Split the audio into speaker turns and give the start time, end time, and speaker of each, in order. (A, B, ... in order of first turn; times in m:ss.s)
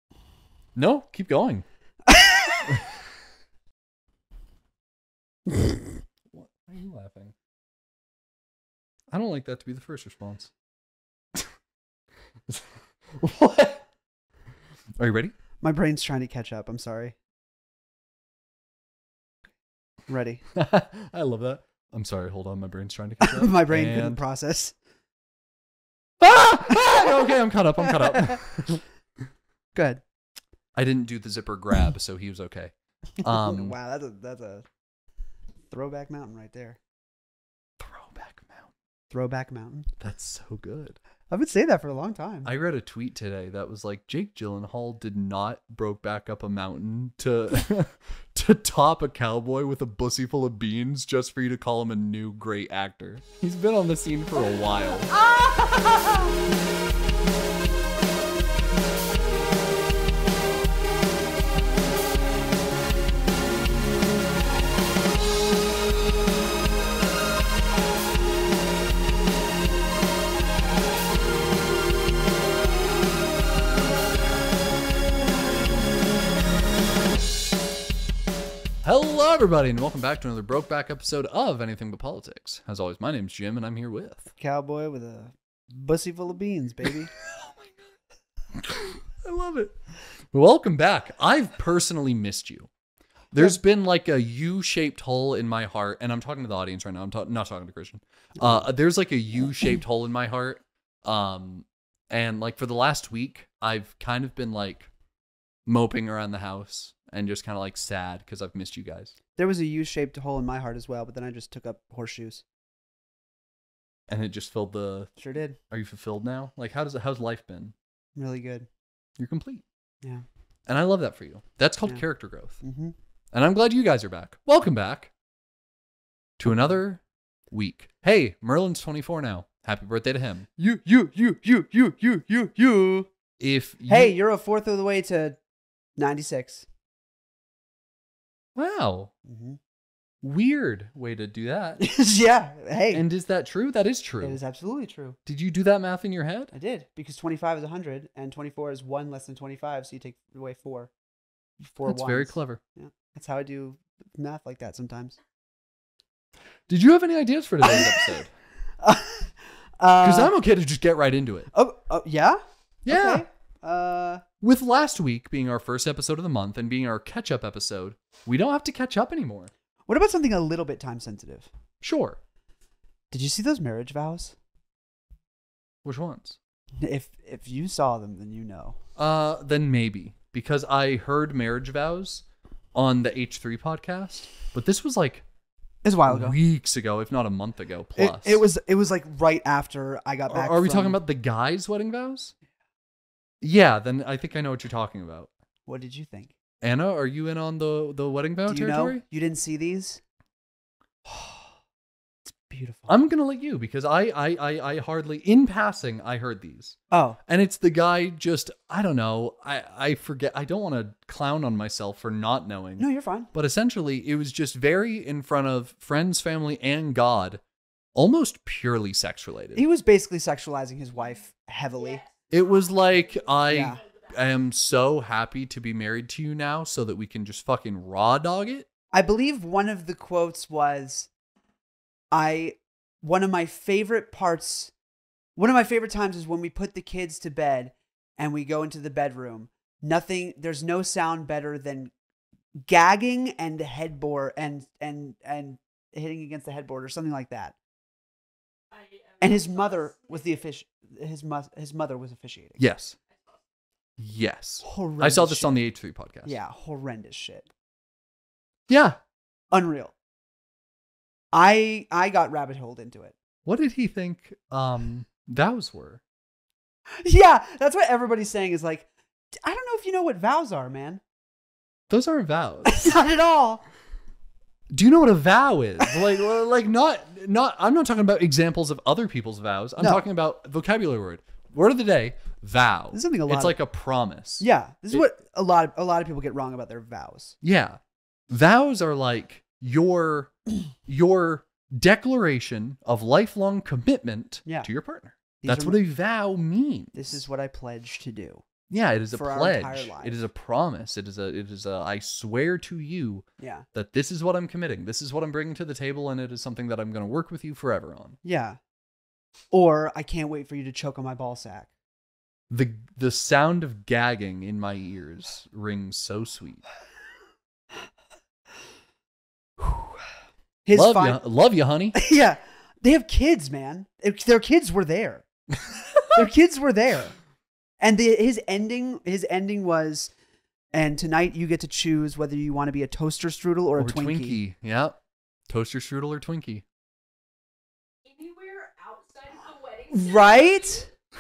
0:00.8-0:01.6 A
0:02.1-0:02.8 B
0:06.3-0:07.4 A
0:09.1-0:10.5 A
0:12.5-0:13.8 A
0:15.0-0:15.3 A
0:15.6-0:17.2 B
0:20.1-0:20.4 B
0:20.6-0:24.2 A
0:23.2-0:24.8 B
0:26.2-0:28.8 A
0:28.0-0:28.4 B
0:29.8-0:30.0 B
0:30.8-0:33.8 A
0:33.2-0:34.6 B
0:35.7-0:36.8 B
0:37.8-0:38.7 A
0:39.1-0:39.9 B
0:40.0-0:41.0 A
0:41.3-0:42.5 B
0:42.4-0:55.2 A
0:55.2-0:56.2 B
1:18.8-1:24.3 A
1:24.4-1:27.1 B
1:26.8-1:27.9 A
1:28.6-1:29.8 A
1:30.3-1:32.7 A
1:33.3-1:44.9 A
1:38.4-1:38.6 B
1:45.7-1:49.2 A
1:49.4-1:52.4 B
1:54.1-1:55.1 A
1:55.2-1:55.6 B
1:55.7-1:57.8 A
1:58.2-1:58.7 B
1:59.2-1:59.6 A
2:00.7-2:02.6 A
2:02.6-2:03.0 B
2:03.3-2:05.1 A
2:06.4-2:10.5 A
2:10.6-2:13.1 B
2:13.4-2:14.2 A
2:13.9-2:15.4 B
2:16.0-2:16.7 B
2:18.6-2:19.1 A
2:19.2-2:19.6 B
2:20.2-2:21.8 A
2:21.8-2:23.0 B
2:22.9-2:24.4 A
2:24.2-2:25.2 B
2:25.3-2:26.5 A
2:26.5-2:30.9 B
2:31.6-2:35.2 B
2:31.8-2:32.6 A
2:36.7-2:38.3 A
2:37.6-2:38.2 B
2:38.8-2:40.3 B
2:40.0-2:41.5 A
2:41.5-2:44.2 B
2:42.8-2:43.2 A
2:44.4-2:49.5 A
2:49.9-2:51.5 B
2:51.8-2:52.2 A
2:53.1-2:54.4 B
2:55.8-2:56.4 A
2:56.8-2:58.8 B
2:59.0-3:05.2 A
3:05.8-3:06.4 B
3:06.1-3:08.4 A
3:08.0-3:11.0 B
3:10.3-3:12.3 A
3:13.4-3:15.3 A
3:15.7-3:16.3 B
3:16.6-3:19.0 A
3:18.5-3:20.0 B
3:21.1-3:21.5 B
3:22.3-3:22.9 B
3:22.9-3:37.4 A
3:26.9-3:27.2 B
3:32.8-3:33.3 B
3:38.0-3:39.6 A
3:39.6-3:42.0 B
3:41.7-3:44.2 C
3:42.3-3:48.7 A
3:43.5-3:43.8 B
3:48.9-3:51.1 B
3:52.1-3:54.7 B
3:55.4-4:01.9 B
4:02.6-4:07.6 B
4:08.7-4:10.4 C
4:09.2-4:12.6 B
4:12.6-4:13.0 A
4:13.1-4:13.4 C
4:14.0-4:16.4 A
4:14.6-4:15.6 B
4:16.2-4:17.5 B
4:18.7-4:19.0 A
4:19.5-4:19.9 B
4:21.3-4:23.1 B
4:23.5-4:26.0 A
4:27.0-4:28.9 B
4:29.4-4:31.0 B
4:31.9-4:33.0 A
4:32.7-4:33.6 B
4:34.7-4:45.1 A
4:39.8-4:40.0 B
4:42.9-4:43.6 B
4:44.4-4:47.4 B
4:47.4-4:50.4 A
4:50.9-4:57.2 A
4:55.4-4:55.8 B
4:56.9-4:58.4 B
4:58.7-5:08.2 A
4:59.1-5:00.2 B
5:03.4-5:03.7 B
5:08.2-5:08.6 B
5:09.5-5:11.7 B
5:12.5-5:16.6 A
5:19.6-5:19.9 B
5:20.6-5:21.2 B
5:20.7-5:22.0 A
5:22.0-5:25.2 B
5:26.1-5:27.2 B
5:27.8-5:30.1 B
5:30.7-5:34.4 B
5:33.8-5:35.0 A
5:35.5-5:36.6 A
5:38.0-5:40.9 C
5:39.9-5:40.9 B